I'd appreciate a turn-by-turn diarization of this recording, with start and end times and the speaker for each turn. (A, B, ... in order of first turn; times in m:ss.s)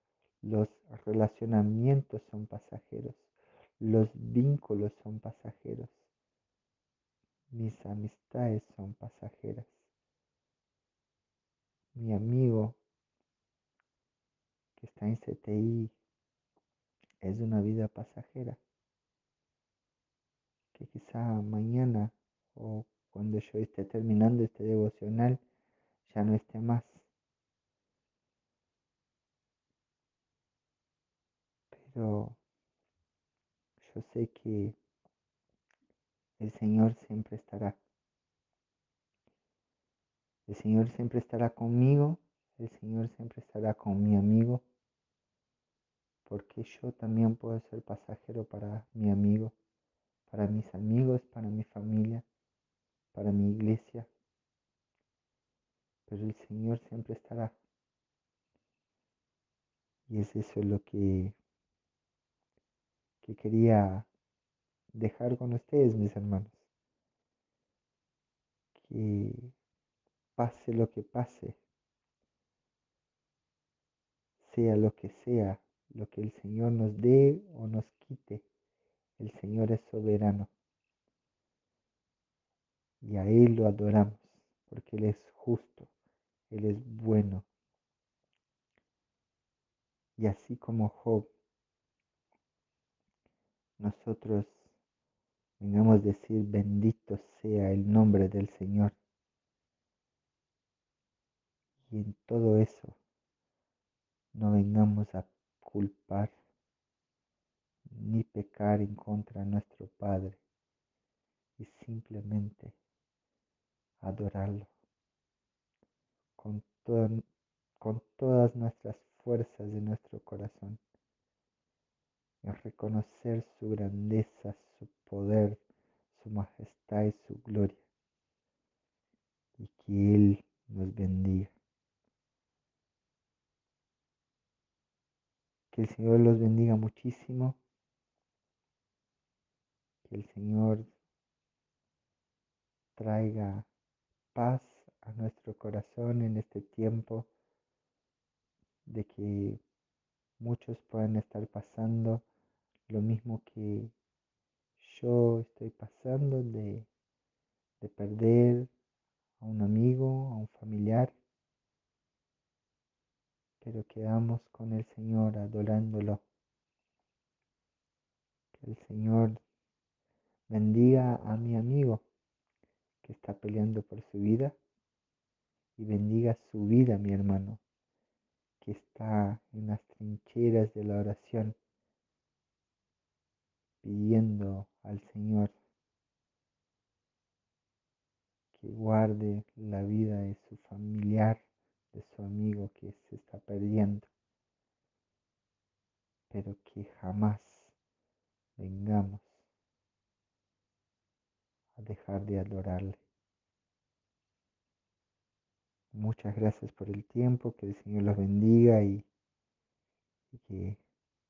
0:00.4-0:06.1 A
0:07.5-0:09.8 A
0:12.0-0:12.8 A
0:14.8-0:15.9 A
0:17.2-0:18.6 A
0:20.7-0:25.4 A
0:26.1-0:27.1 A
0:31.7-0:32.4 A
0:33.8-0:34.8 A
0:36.4-0:37.8 A
0:40.5-0:44.6 A
0:46.3-0:49.5 A
0:50.3-0:52.2 A
0:53.1-0:54.1 A
0:56.1-0:57.6 A
1:00.1-1:01.4 A
1:03.2-1:04.1 A
1:05.0-1:06.7 A
1:08.8-1:09.5 A
1:10.4-1:11.6 A
1:14.4-1:18.5 A
1:19.2-1:20.5 A
1:23.0-1:25.9 A
1:26.5-1:27.5 A
1:30.2-1:31.3 A
1:33.8-1:34.7 A
1:35.6-1:39.0 A
1:41.9-1:43.0 A
1:44.3-1:46.4 A
1:47.9-1:50.4 A
1:51.6-1:52.8 A
1:54.0-1:54.7 A
1:56.4-1:57.2 A
1:57.8-2:00.8 A
2:02.4-2:05.6 A
2:06.1-2:07.8 A
2:09.6-2:11.5 A
2:15.7-2:17.6 A
2:20.0-2:20.9 A
2:23.0-2:23.7 A
2:24.3-2:27.3 A
2:28.9-2:29.6 A
2:30.4-2:32.2 A
2:32.9-2:33.9 A
2:34.8-2:36.9 A
2:37.8-2:38.7 A
2:39.4-2:41.2 A
2:43.6-2:46.2 A
2:48.6-2:49.4 A
2:50.5-2:52.0 A
2:53.0-2:54.6 A
2:55.8-2:57.6 A
2:58.6-3:01.6 A
3:03.8-3:05.6 A
3:08.5-3:11.4 A
3:11.9-3:14.1 A
3:16.3-3:17.8 A
3:18.6-3:19.5 A
3:21.8-3:23.0 A
3:25.9-3:29.1 A
3:30.3-3:30.8 A